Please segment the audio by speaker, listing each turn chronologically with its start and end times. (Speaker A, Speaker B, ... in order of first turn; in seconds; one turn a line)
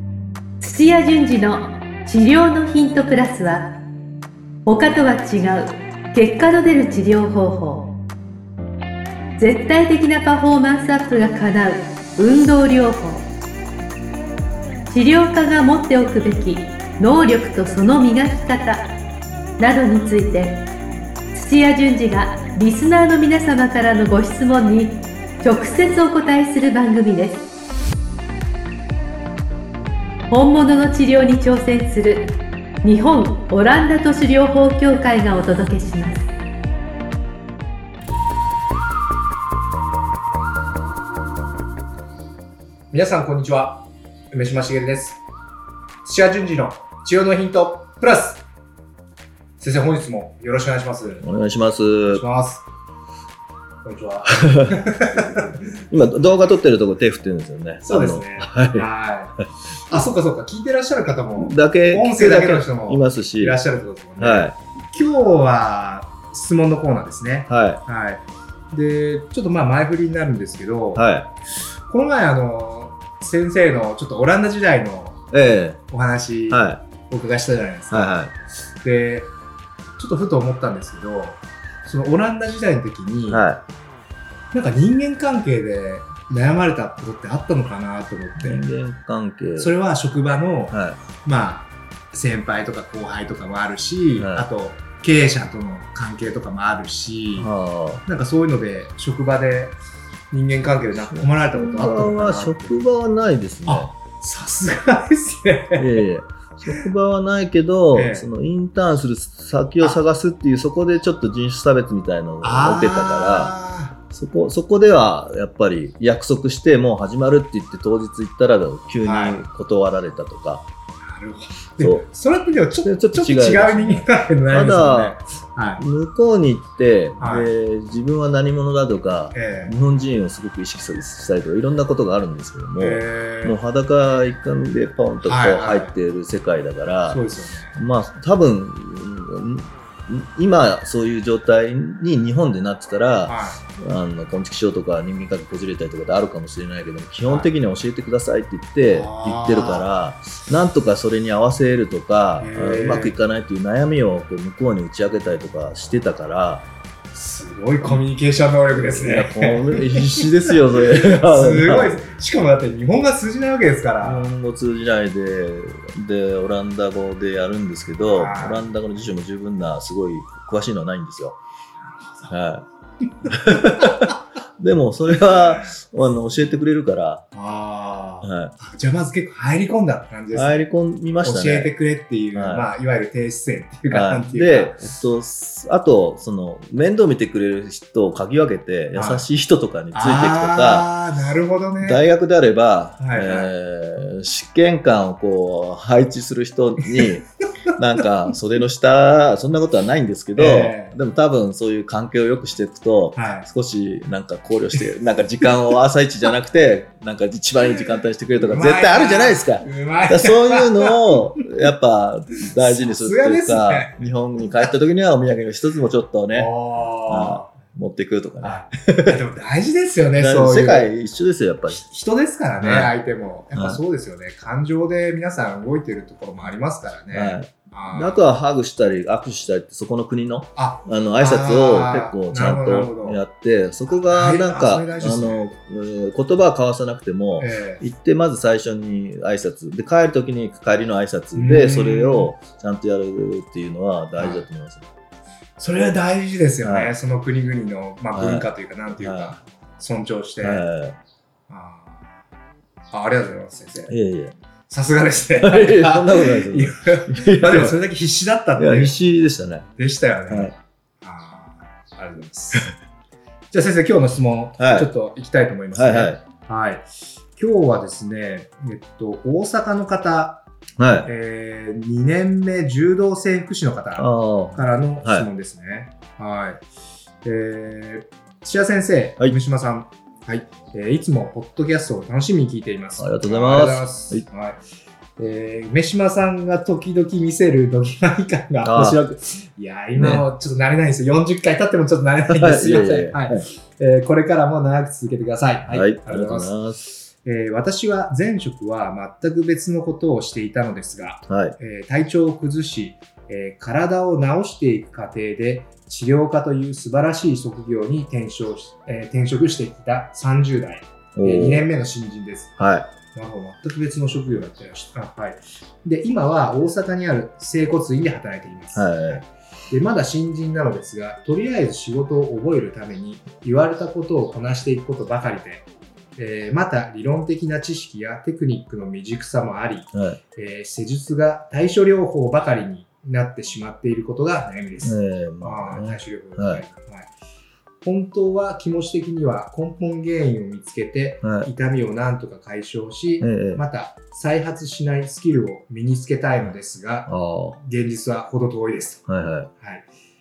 Speaker A: 0.6-3.7
Speaker A: 4.7-7.9
Speaker A: 9.4-13.2
Speaker A: 14.9-18.8
Speaker A: 19.6-20.6
Speaker A: 21.3-27.4
Speaker A: 30.3-32.2
Speaker A: 32.8-36.3
Speaker B: 42.9-45.2
Speaker B: 46.0-48.4
Speaker B: 49.6-51.2
Speaker C: 51.2-52.2
Speaker B: 52.1-52.6
Speaker B: 53.8-55.8
Speaker C: 54.4-54.8
Speaker C: 55.9-58.9
Speaker B: 57.8-71.1
Speaker C: 61.4-63.6
Speaker C: 64.2-64.5
Speaker C: 67.5-67.8
Speaker C: 70.9-71.3
Speaker B: 71.9-75.2
Speaker C: 75.3-75.8
Speaker B: 75.9-78.2
Speaker C: 76.5-76.8
Speaker C: 77.9-78.3
Speaker B: 78.8-79.3
Speaker B: 80.0-83.4
Speaker C: 83.3-83.6
Speaker B: 84.5-88.6
Speaker C: 88.4-89.7
Speaker B: 89.6-97.5
Speaker C: 90.7-91.0
Speaker C: 94.2-94.5
Speaker C: 97.3-98.0
Speaker B: 98.0-99.8
Speaker B: 100.3-102.8
Speaker C: 101.1-103.9
Speaker B: 103.7-106.0
Speaker C: 105.8-113.5
Speaker B: 107.9-108.3
Speaker B: 112.4-114.0
Speaker C: 114.1-120.7
Speaker B: 119.0-119.4
Speaker B: 121.0-125.8
Speaker C: 122.8-125.2
Speaker C: 125.8-137.2
Speaker B: 127.2-127.5
Speaker B: 129.3-129.7
Speaker B: 132.8-133.6
Speaker B: 135.2-135.9
Speaker B: 137.1-137.8
Speaker C: 137.7-156.7
Speaker B: 143.3-143.6
Speaker B: 147.2-147.5
Speaker B: 148.9-149.9
Speaker B: 152.4-153.1
Speaker B: 157.1-164.3
Speaker C: 158.8-162.0
Speaker C: 164.0-171.4
Speaker B: 168.1-168.6
Speaker C: 172.3-172.7
Speaker C: 173.2-177.2
Speaker B: 173.3-174.1
Speaker B: 175.3-175.6
Speaker B: 177.3-180.7
Speaker C: 178.2-178.5
Speaker C: 180.3-181.7
Speaker B: 181.2-184.8
Speaker C: 182.3-182.7
Speaker C: 183.9-190.9
Speaker B: 188.9-189.2
Speaker B: 189.9-192.0
Speaker C: 191.8-216.5
Speaker B: 193.0-193.5
Speaker B: 200.3-200.9
Speaker B: 203.2-203.4
Speaker B: 208.4-211.4
Speaker B: 212.4-213.9
Speaker B: 216.3-217.5
Speaker C: 217.1-219.2
Speaker B: 218.4-220.9
Speaker C: 220.2-221.8
Speaker B: 221.7-228.2
Speaker C: 222.6-222.9
Speaker C: 223.5-223.8
Speaker C: 227.1-244.9
Speaker B: 230.6-233.2
Speaker B: 233.9-235.5
Speaker B: 237.4-237.8
Speaker B: 241.3-242.3
Speaker B: 244.2-244.4
Speaker B: 245.6-250.6
Speaker C: 246.6-246.9
Speaker C: 248.2-248.5
Speaker C: 249.0-249.3
Speaker C: 250.4-251.0
Speaker B: 251.5-252.0
Speaker B: 252.9-253.9
Speaker C: 253.9-254.3
Speaker B: 254.7-258.9
Speaker C: 255.4-257.7
Speaker C: 258.6-259.7
Speaker B: 259.8-262.7
Speaker C: 260.3-260.5
Speaker B: 263.5-266.9
Speaker C: 264.6-264.9
Speaker C: 265.7-266.2
Speaker B: 267.4-270.4
Speaker C: 270.8-271.1
Speaker B: 271.0-276.6
Speaker C: 273.9-275.3
Speaker B: 277.2-284.6
Speaker C: 283.0-284.2
Speaker B: 285.2-296.6
Speaker C: 288.6-289.0
Speaker C: 289.9-290.3
Speaker C: 292.3-293.4
Speaker C: 295.7-296.8
Speaker B: 297.2-337.1
Speaker C: 301.3-301.6
Speaker C: 311.1-311.7
Speaker C: 312.6-312.9
Speaker C: 318.7-319.2
Speaker C: 329.9-330.2
Speaker C: 334.8-336.6
Speaker B: 337.8-349.0
Speaker C: 341.2-341.5
Speaker C: 343.2-343.6
Speaker C: 347.1-347.6
Speaker C: 349.1-349.5
Speaker B: 349.6-349.9